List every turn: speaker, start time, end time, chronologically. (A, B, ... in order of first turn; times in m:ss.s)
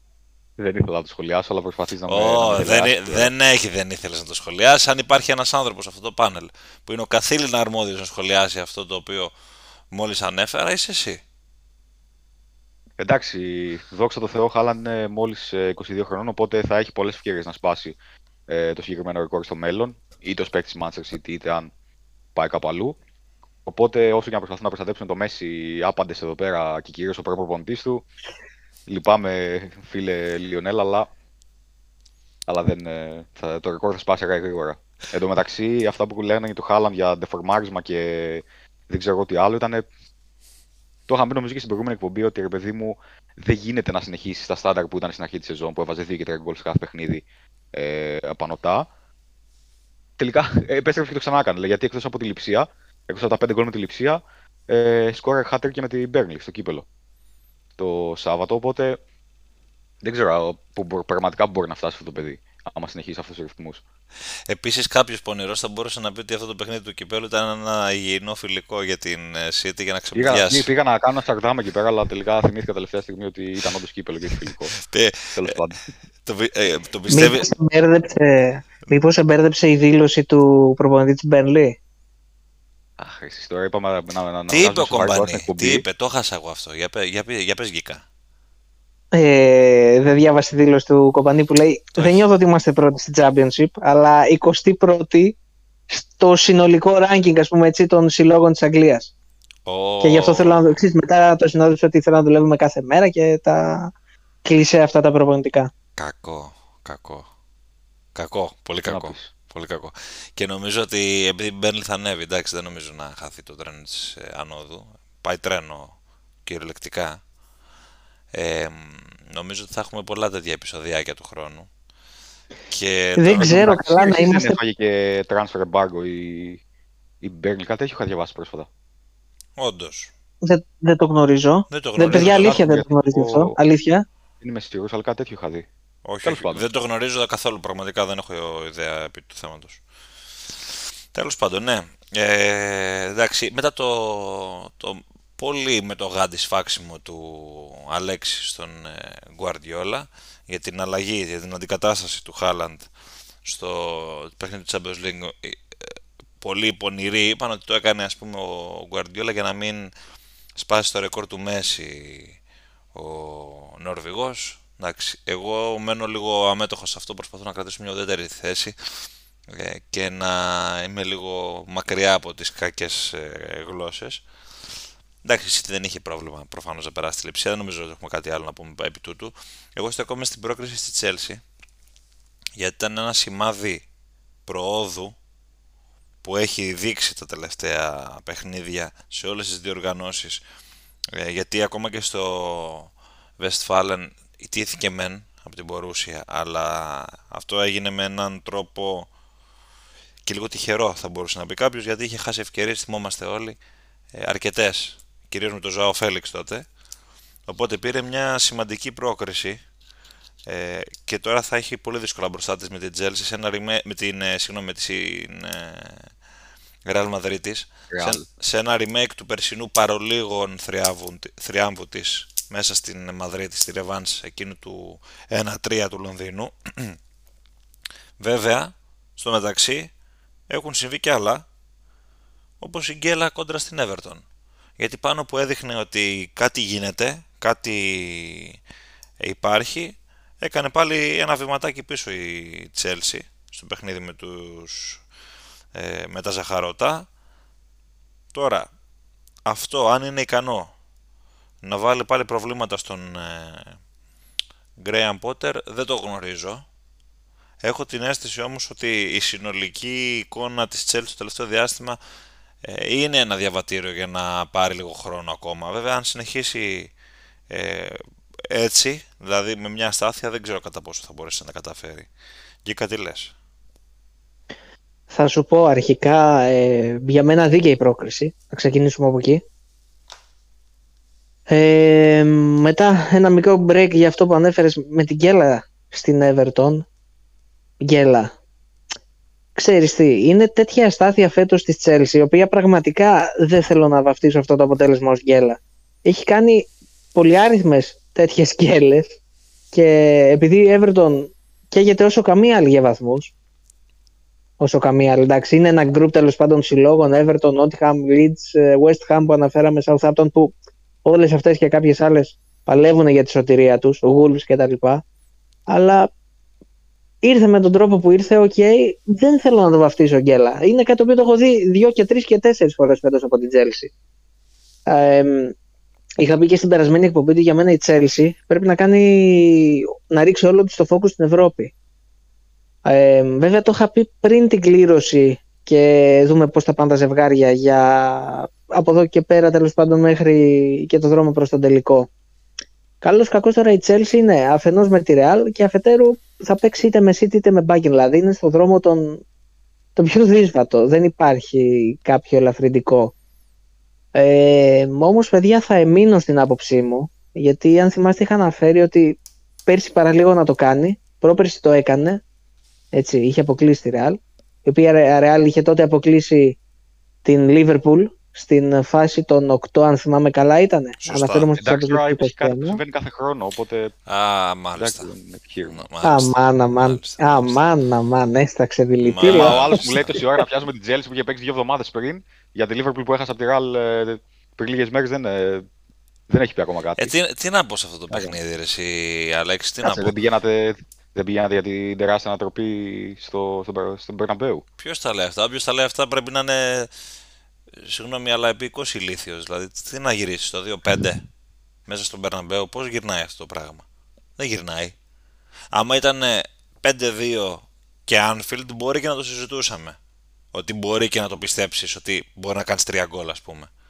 0:00.6-0:03.3 A
0:02.1-0:09.3 B
0:09.9-0:11.2 B
0:13.0-0:18.0 A
0:18.5-0:21.7 A
0:22.4-0:23.0 A
0:23.7-0:28.0 A
0:28.9-0:31.1 A
0:32.5-0:39.9 A
0:41.1-0:48.9 A
0:50.2-0:56.8 A
0:57.8-0:59.0 A
1:00.0-1:03.8 A
1:04.5-1:10.7 B
1:10.2-1:14.8 A
1:14.8-1:15.5 B
1:15.3-1:15.8 A
1:16.2-1:17.5 B
1:17.1-1:21.8 C
1:23.0-1:25.8 A
1:24.5-1:28.0 B
1:29.1-1:35.4 C
1:32.0-1:32.2 B
1:35.9-1:39.1 C
1:39.7-1:40.8 B
1:40.0-1:43.9 C
1:44.4-1:45.7 C
1:46.0-1:47.3 B
1:48.2-1:57.2 B
1:48.9-1:49.3 A
1:58.3-2:01.7 B
2:02.7-2:03.8 B
2:03.2-2:04.6 C
2:03.4-2:06.6 A
2:07.2-2:08.7 A
2:09.6-2:10.1 B
2:10.4-2:14.0 C
2:11.7-2:12.6 B
2:12.0-2:13.6 A
2:14.4-2:15.7 A
2:16.0-2:19.8 B
2:16.2-2:16.6 A
2:21.1-2:32.9 B
2:33.4-2:39.9 B
2:40.6-2:42.4 B
2:42.9-2:54.2 B
2:55.2-3:01.4 B
3:02.6-3:03.8 B
3:04.5-3:05.2 B
3:06.2-3:10.4 B
3:11.2-3:19.1 B
3:20.2-3:23.6 B
3:24.1-3:26.7 B
3:27.5-3:29.6 B
3:30.5-3:36.1 B
3:36.9-3:47.0 B
3:37.9-3:38.2 A
3:48.2-3:49.9 B
3:50.5-3:51.4 B
3:52.6-3:54.2 B
3:54.8-3:58.6 B
3:59.2-4:05.0 B
4:05.8-4:07.1 B
4:08.3-4:08.7 B
4:09.5-4:10.7 B
4:11.6-4:13.8 B
4:14.8-4:16.6 B
4:17.6-4:22.0 B
4:22.6-4:26.9 B
4:27.5-4:32.1 B
4:32.6-4:33.4 B
4:35.1-4:39.4 C
4:41.5-4:46.9 C
4:47.8-4:48.3 C
4:49.6-4:59.2 C
4:59.7-5:03.3 C
5:04.6-5:15.0 C
5:15.7-5:16.1 C
5:17.2-5:23.9 C
5:24.9-5:25.5 C
5:26.2-5:31.7 C
5:32.8-5:42.1 C
5:43.0-5:49.2 C
5:50.0-5:53.1 C
5:54.1-6:02.2 C
6:02.9-6:06.6 C
6:07.2-6:12.8 C
6:11.0-6:11.5 B
6:11.6-6:13.9 A
6:14.1-6:15.1 B
6:14.8-6:15.8 A
6:15.6-6:17.6 B
6:16.0-6:19.8 C
6:19.0-6:20.2 B
6:19.2-6:25.7 A
6:26.3-6:27.2 A
6:27.0-6:30.1 B
6:29.8-6:34.6 A
6:34.8-6:36.9 B
6:37.9-6:41.2 B
6:41.9-6:43.8 B
6:44.4-6:45.0 B
6:45.7-6:50.0 B
6:50.5-6:53.7 B